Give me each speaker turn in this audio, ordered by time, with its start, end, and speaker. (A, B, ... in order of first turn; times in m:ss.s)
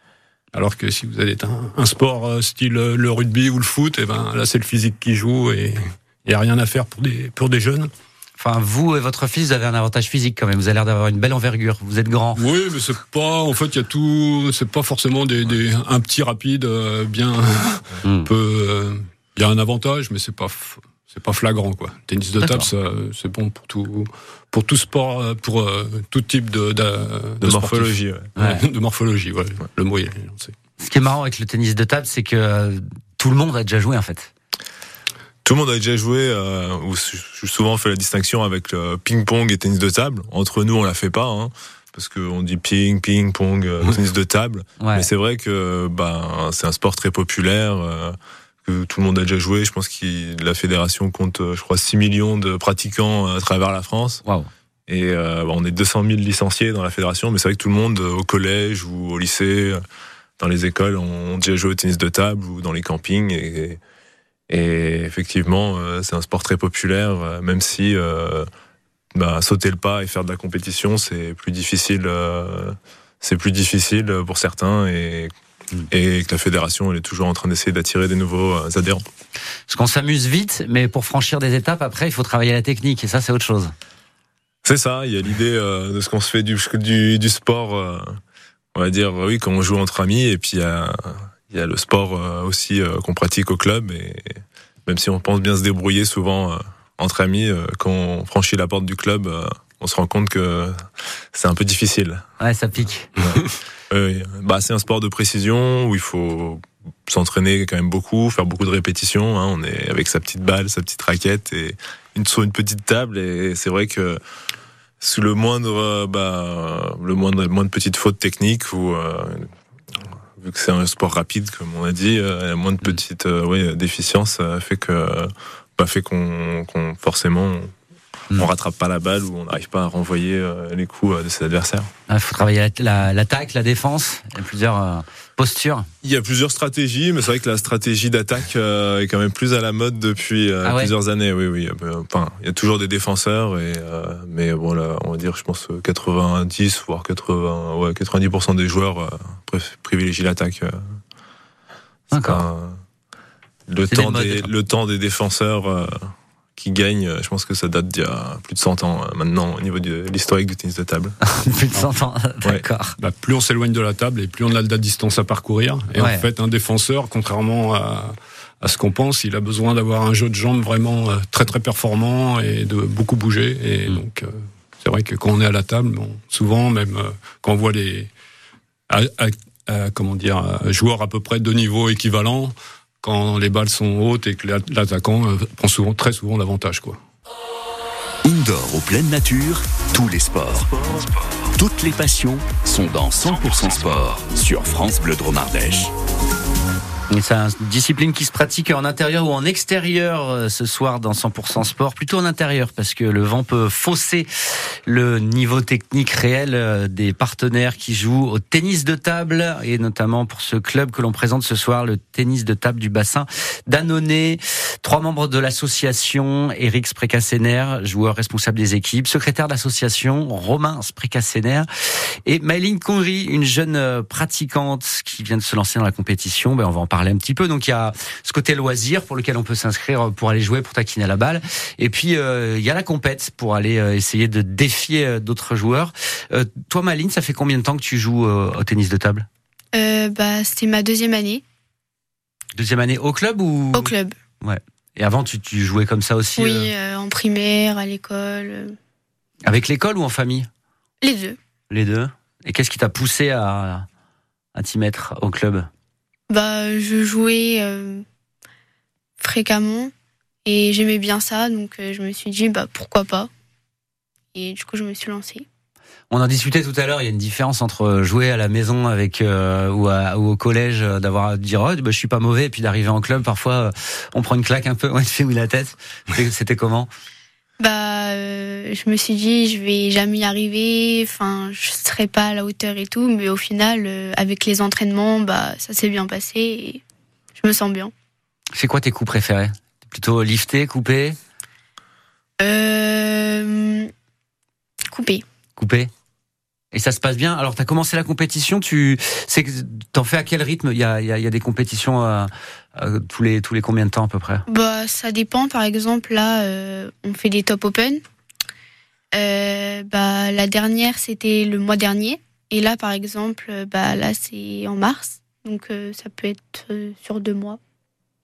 0:00.5-0:07.9 A
0:08.4-0:12.4 B
0:12.4-0:30.5 A
0:18.0-0:18.3 B
0:22.4-0:22.7 B
0:27.4-0:28.3 C
0:28.4-0:28.6 B
0:30.8-0:34.3 B
0:35.4-0:54.2 C
0:44.8-0:45.1 B
0:54.9-0:59.8 C
1:00.4-1:03.8 C
1:04.5-1:08.5 C
1:09.1-1:15.3 C
1:15.9-1:19.0 C
1:19.7-1:23.7 B
1:24.6-1:28.2 C
1:28.7-1:40.8 C
1:41.3-1:42.2 C
1:42.4-1:43.1 B
1:43.2-1:54.2 C
1:55.0-1:59.5 C
2:00.4-2:07.7 C
2:08.4-2:11.9 C
2:12.1-2:15.9 B
2:16.0-2:30.8 C
2:20.6-2:20.9 B
2:32.1-2:32.5 B
2:32.2-2:32.8 C
2:33.7-2:41.2 C
2:33.9-2:34.5 B
2:41.2-2:43.0 B
2:43.0-2:58.1 A
2:45.9-2:46.2 B
2:58.9-3:07.0 A
3:08.2-3:15.9 D
3:17.1-3:41.7 B
3:42.2-3:59.3 B
3:59.7-4:01.4 E
4:02.5-4:06.7 B
4:03.7-4:04.2 E
4:06.4-4:08.8 E
4:09.4-4:10.5 B
4:11.0-4:11.4 E
4:11.7-4:13.9 B
4:14.5-4:15.7 B
4:16.3-4:18.0 E
4:19.2-4:19.9 E
4:20.4-4:23.3 E
4:24.3-4:25.4 E
4:26.1-4:36.9 B
4:37.6-4:46.8 E
4:47.4-4:47.9 E
4:48.5-4:51.2 B
4:52.4-4:53.9 E
4:54.9-4:55.2 E
4:55.6-4:55.9 B
4:56.7-5:04.4 B
5:04.5-5:08.0 E
5:09.1-5:17.6 E